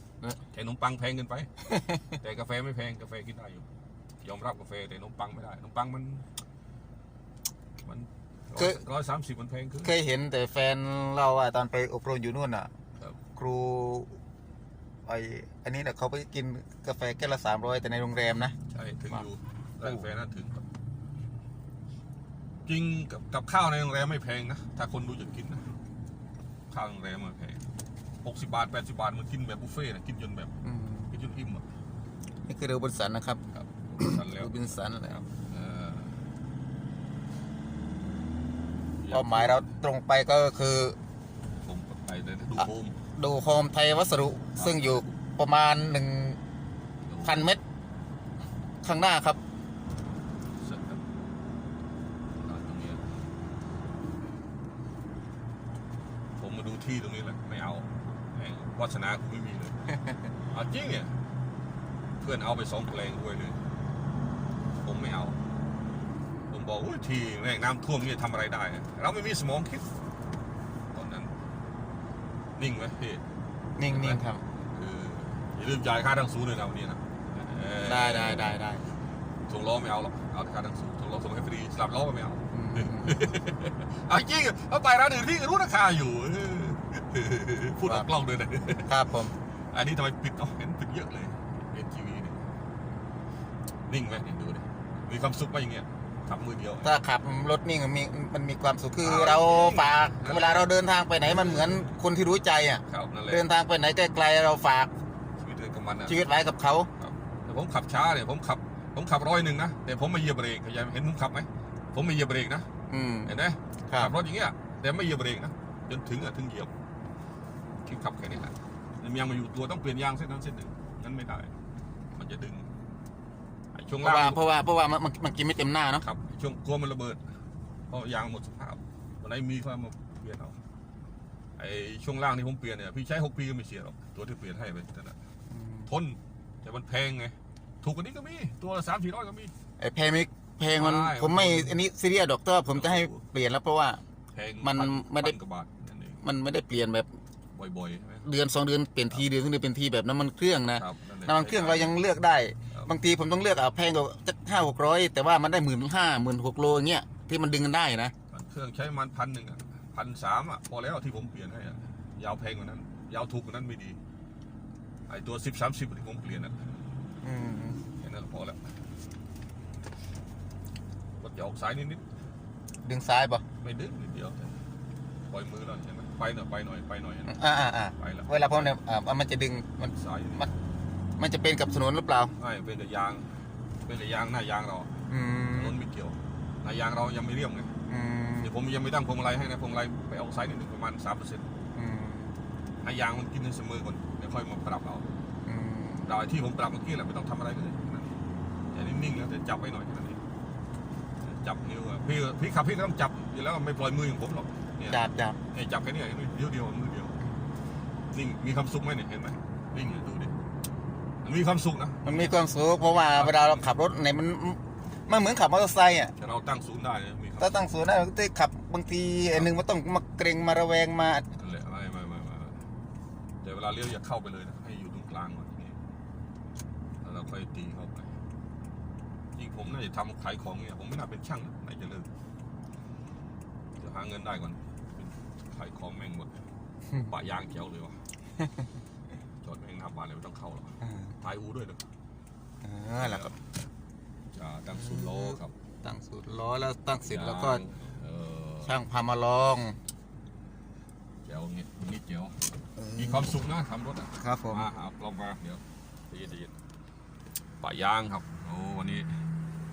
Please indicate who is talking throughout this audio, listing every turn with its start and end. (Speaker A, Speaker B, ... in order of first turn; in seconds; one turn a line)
Speaker A: 0.4-3.6
Speaker B: 1.7-2.1
Speaker A: 4.2-6.3
Speaker A: 7.8-9.9
Speaker B: 9.8-12.7
Speaker B: 13.3-14.2
Speaker B: 15.1-18.5
Speaker A: 18.7-20.6
Speaker A: 22.6-25.7
Speaker A: 26.7-27.6
Speaker A: 28.2-30.5
Speaker B: 30.6-31.1
Speaker A: 31.1-31.7
Speaker B: 32.4-33.4
Speaker A: 33.5-36.2
Speaker B: 34.0-35.2
Speaker A: 39.0-39.7
Speaker B: 39.1-41.0
Speaker A: 41.6-43.0
Speaker B: 43.1-46.4
Speaker A: 44.5-45.2
Speaker A: 47.0-47.5
Speaker B: 47.2-47.6
Speaker B: 48.8-49.4
Speaker A: 50.6-51.0
Speaker A: 52.4-53.0
Speaker A: 56.4-59.8
Speaker A: 60.5-61.1
Speaker A: 62.2-63.6
Speaker A: 64.8-65.4
Speaker A: 66.5-69.9
Speaker A: 70.9-71.3
Speaker A: 72.6-73.2
Speaker B: 73.8-74.4
Speaker A: 73.9-78.6
Speaker B: 77.8-78.9
Speaker A: 79.5-92.4
Speaker B: 82.5-83.2
Speaker B: 87.8-88.1
Speaker B: 88.8-89.3
Speaker A: 93.9-96.9
Speaker B: 96.8-104.9
Speaker A: 99.0-102.0
Speaker A: 102.9-103.5
Speaker A: 105.4-106.2
Speaker B: 106.1-106.9
Speaker A: 107.0-112.7
Speaker B: 112.9-113.3
Speaker A: 113.2-116.7
Speaker B: 113.9-114.1
Speaker A: 117.8-121.5
Speaker A: 122.1-122.7
Speaker A: 123.7-124.4
Speaker B: 124.0-126.0
Speaker A: 126.0-127.2
Speaker A: 127.9-130.6
Speaker A: 131.6-135.2
Speaker B: 135.5-135.9
Speaker A: 135.9-139.5
Speaker B: 139.8-144.0
Speaker A: 140.7-141.8
Speaker A: 142.7-143.2
Speaker A: 144.3-146.2
Speaker B: 144.6-145.3
Speaker B: 146.2-147.1
Speaker A: 147.5-148.3
Speaker B: 148.2-158.1
Speaker A: 150.8-152.0
Speaker A: 158.3-164.0
Speaker A: 165.1-166.6
Speaker B: 167.2-167.8
Speaker A: 168.0-168.6
Speaker A: 171.2-172.0
Speaker B: 172.8-173.4
Speaker A: 173.6-174.5
Speaker A: 175.3-177.4
Speaker B: 177.3-180.5
Speaker A: 178.0-178.7
Speaker A: 179.9-180.5
Speaker B: 181.2-182.3
Speaker A: 182.4-184.9
Speaker B: 185.1-185.8
Speaker A: 185.5-187.7
Speaker B: 187.9-188.5
Speaker A: 188.4-191.5
Speaker B: 191.7-192.3
Speaker A: 192.8-195.1
Speaker B: 195.4-196.1
Speaker A: 196.1-198.2
Speaker A: 198.7-200.2
Speaker A: 201.2-205.0
Speaker B: 204.9-205.4
Speaker A: 205.5-207.2
Speaker A: 208.1-210.3
Speaker A: 211.2-212.3
Speaker B: 212.0-216.1
Speaker A: 213.1-213.7
Speaker A: 216.2-217.7
Speaker B: 217.4-221.3
Speaker A: 221.3-222.6
Speaker A: 223.4-225.8
Speaker A: 227.0-228.2
Speaker A: 229.3-232.1
Speaker A: 233.8-236.3
Speaker A: 236.9-238.0
Speaker B: 238.4-238.7
Speaker A: 239.4-241.8
Speaker B: 240.8-241.1
Speaker B: 242.6-243.3
Speaker A: 243.0-243.4
Speaker A: 244.3-245.5
Speaker B: 244.7-247.6
Speaker A: 247.1-248.8
Speaker B: 248.6-249.8
Speaker A: 251.2-256.5
Speaker B: 252.8-253.3
Speaker B: 254.2-254.7
Speaker A: 257.6-259.2